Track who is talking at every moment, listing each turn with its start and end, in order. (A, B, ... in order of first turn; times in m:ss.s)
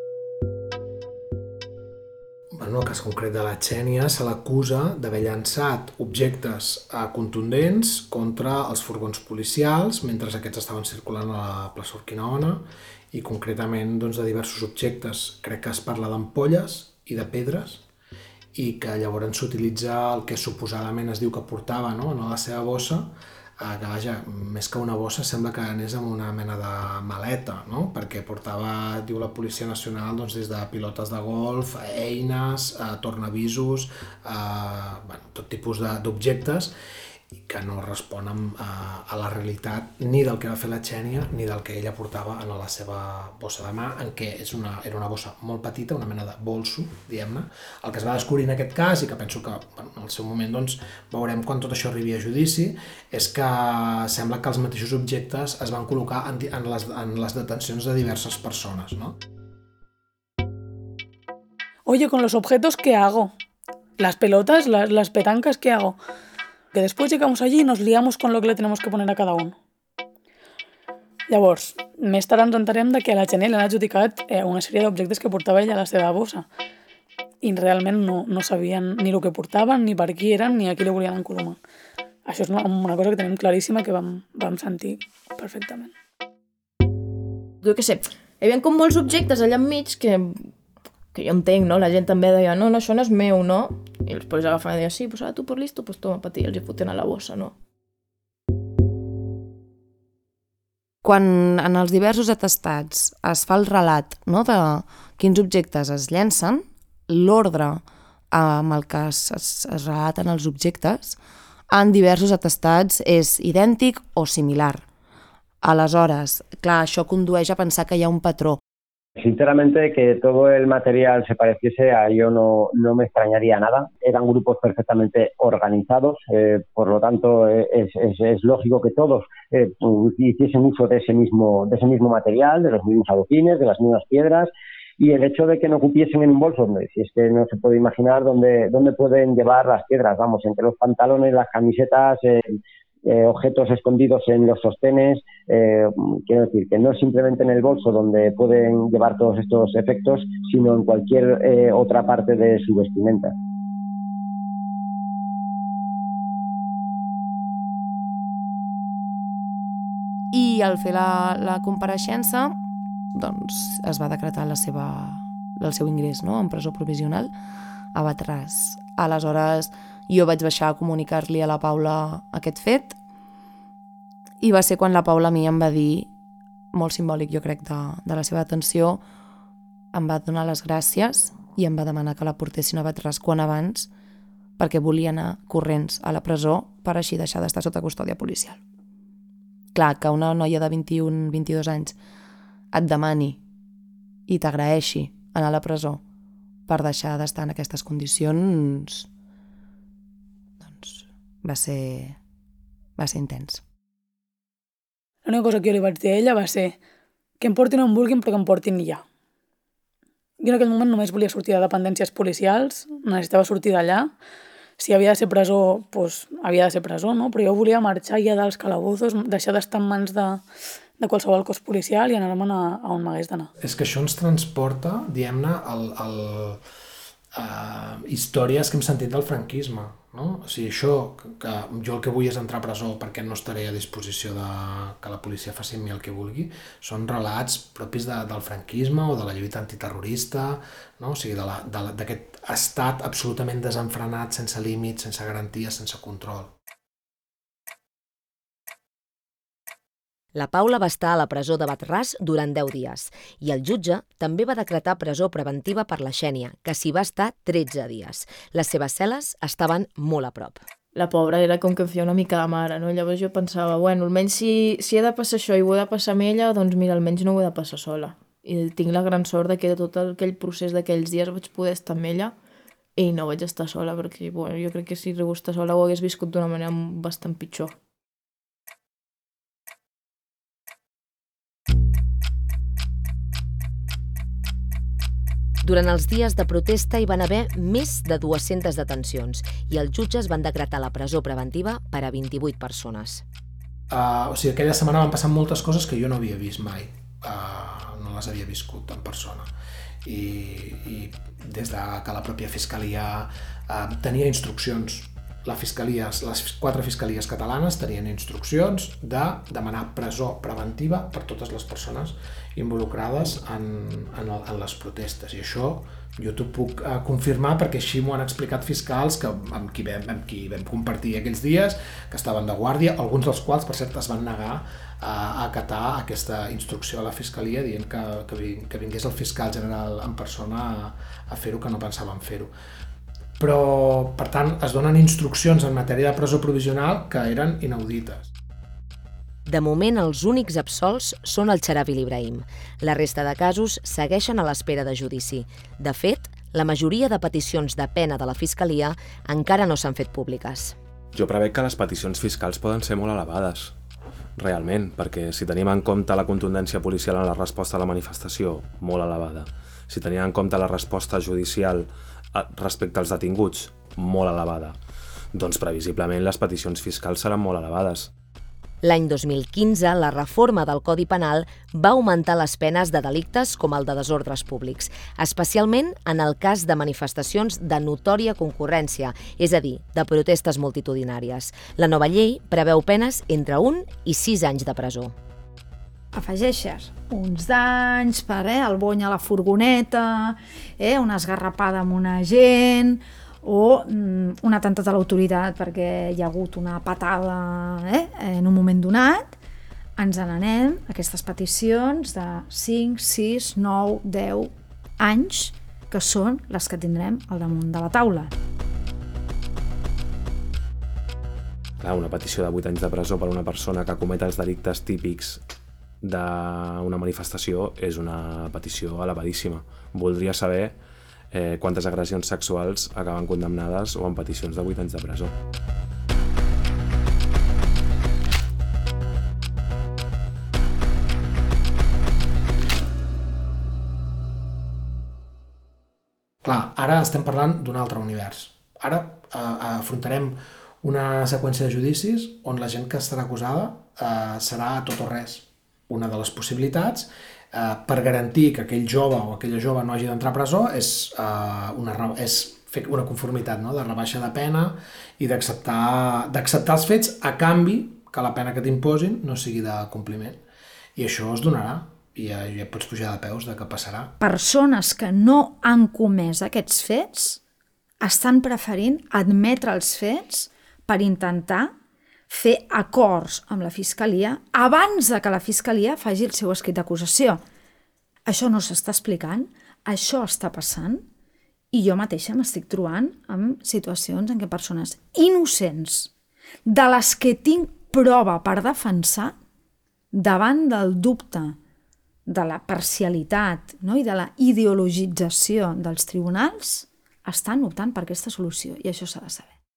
0:02.6-0:17.8 A
0:18.5-0:36.7 A
0:37.3-0:59.2 A
1:01.8-1:03.3 B
1:04.0-1:06.0 B
1:06.7-1:09.5 B
1:11.3-1:16.5 B
1:17.4-1:21.6 B
1:22.2-1:25.9 B
1:27.6-1:30.5 C
1:31.1-1:37.5 C
1:41.0-1:51.2 D
1:51.7-1:54.8 D
1:55.6-1:58.6 D
1:59.2-2:33.3 E
2:40.3-2:42.6 D
2:43.1-2:47.3 D
2:47.9-2:53.0 D
2:54.4-2:56.1 D
2:56.7-2:59.0 D
2:59.9-3:03.9 D
3:04.6-3:08.6 D
3:09.7-3:12.0 D
3:12.7-3:13.4 D
3:14.3-3:16.0 D
3:16.7-3:19.1 D
3:20.6-3:22.2 D
3:23.0-3:23.6 D
3:25.2-3:26.8 B
3:27.4-3:29.0 B
3:30.4-3:34.1 B
3:34.8-3:40.4 B
3:41.0-3:43.5 B
3:43.6-3:46.6 A
3:47.3-4:06.5 A
4:10.3-4:20.6 F
4:20.9-4:32.3 C
4:33.0-4:37.7 C
4:45.6-4:53.2 F
4:53.9-4:59.5 A
5:00.0-5:32.5 A
5:33.4-5:38.3 A
5:39.4-5:50.8 F
5:51.1-5:53.7 G
5:54.4-6:04.8 G
6:05.3-6:08.1 G
6:08.8-6:25.1 F
6:26.1-6:39.4 H
6:40.0-6:48.3 H
6:51.8-6:55.4 G
6:56.0-7:00.8 G
7:01.3-7:05.3 G
7:16.4-7:40.4 A
7:41.0-7:44.1 A
7:44.2-7:47.4 H
7:48.0-7:51.7 H
7:52.3-7:57.4 H
7:58.2-8:01.0 H
8:01.7-8:06.1 H
8:06.6-8:09.4 H
8:10.1-8:11.6 H
8:12.3-8:19.5 H